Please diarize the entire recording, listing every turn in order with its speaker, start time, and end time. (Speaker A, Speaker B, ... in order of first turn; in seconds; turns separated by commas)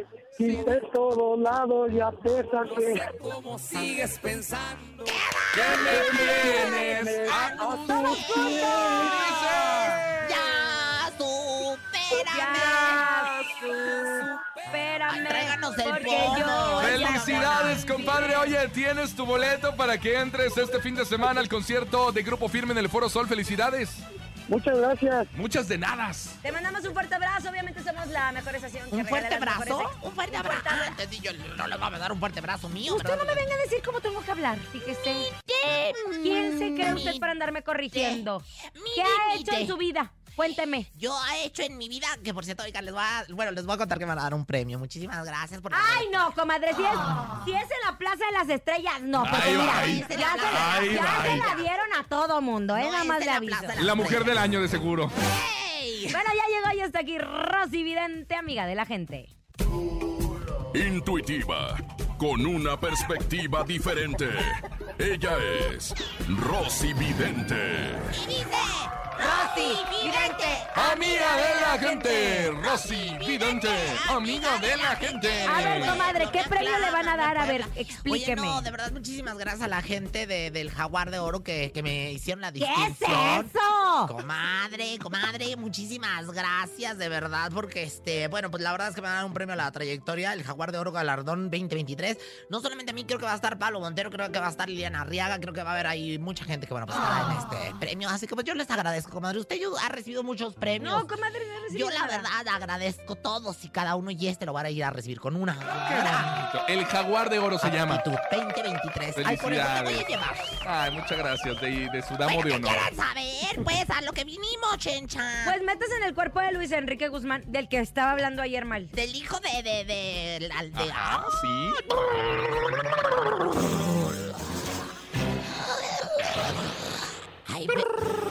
Speaker A: 0.4-3.1, Speaker B: 0.4-0.7, Speaker C: 2.7-5.1, Speaker D: 5.0-13.1, Speaker B: 5.5-10.4, Speaker A: 5.8-9.0, Speaker E: 12.2-18.5, Speaker B: 13.2-14.2, Speaker D: 15.1-18.2, Speaker B: 16.8-24.0, Speaker A: 24.5-25.3, Speaker B: 25.3-26.4, Speaker E: 26.4-31.0, Speaker D: 28.9-33.4, Speaker E: 32.9-35.3, Speaker D: 35.2-37.3, Speaker E: 36.2-40.9, Speaker D: 37.9-39.8, Speaker D: 40.9-46.1, Speaker E: 45.7-53.8, Speaker B: 49.2-51.5, Speaker D: 49.2-51.7, Speaker D: 52.7-54.4, Speaker B: 53.8-55.1, Speaker D: 55.1-56.2, Speaker E: 56.1-59.3, Speaker F: 60.7-68.2, Speaker D: 68.1-83.5, Speaker E: 69.2-72.5, Speaker B: 70.7-76.0, Speaker E: 75.5-78.6, Speaker E: 82.6-84.1, Speaker D: 84.0-101.1, Speaker E: 100.8-102.3, Speaker D: 101.7-106.3, Speaker B: 105.8-108.0, Speaker D: 107.6-110.6, Speaker B: 109.2-110.1, Speaker B: 110.6-112.9, Speaker D: 112.2-115.6, Speaker E: 115.4-118.9, Speaker D: 118.9-121.3, Speaker B: 120.7-122.0, Speaker D: 121.9-124.7, Speaker D: 125.4-127.9